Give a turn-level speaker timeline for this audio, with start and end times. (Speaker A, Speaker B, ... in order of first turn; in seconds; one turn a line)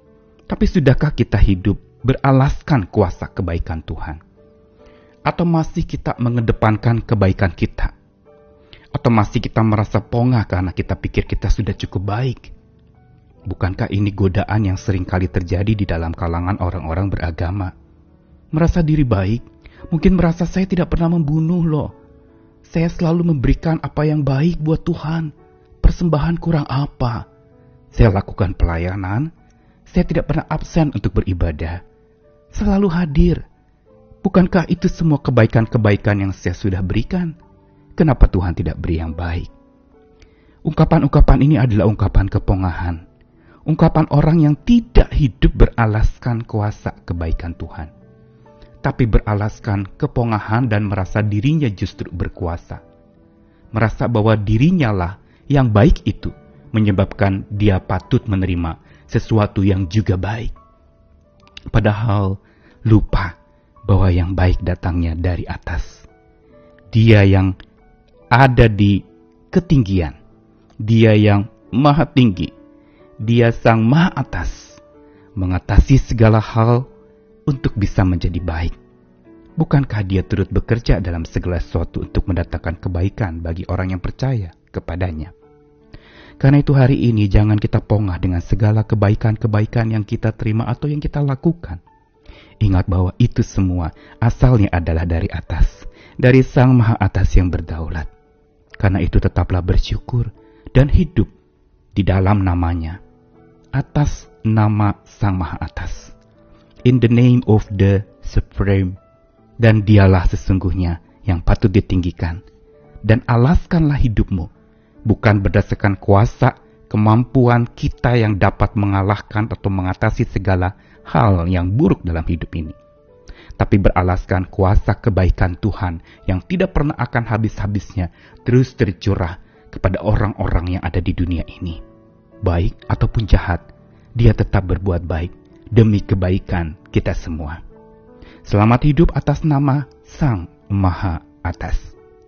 Speaker A: 0.5-4.2
Speaker A: 5.3-7.9
Speaker A: 8.9-12.5
Speaker A: 13.5-17.7
Speaker A: 18.5-21.9
Speaker A: 22.7-27.2
Speaker A: 27.9-29.3
Speaker A: 29.9-31.8
Speaker A: 32.5-33.4
Speaker A: 34.2-37.3
Speaker A: 38.0-39.5
Speaker A: 40.7-43.0
Speaker A: 43.7-47.9
Speaker A: 48.8-52.8
Speaker A: 53.7-60.5
Speaker A: 61.7-63.3
Speaker A: 63.9-66.1
Speaker A: 66.9-67.5
Speaker A: 68.3-70.2
Speaker A: 70.8-72.5
Speaker A: 73.2-74.8
Speaker A: 75.4-76.9
Speaker A: 77.5-78.8
Speaker A: 79.6-85.3
Speaker A: 86.4-91.8
Speaker A: 92.6-98.1
Speaker A: 98.8-101.3
Speaker A: 102.0-103.0
Speaker A: 103.7-106.1
Speaker A: 106.9-109.0
Speaker A: 109.6-112.4
Speaker A: 113.0-114.5
Speaker A: 115.1-122.8
Speaker A: 123.6-131.8
Speaker A: 132.4-133.6
Speaker A: 134.2-137.6
Speaker A: 138.4-141.9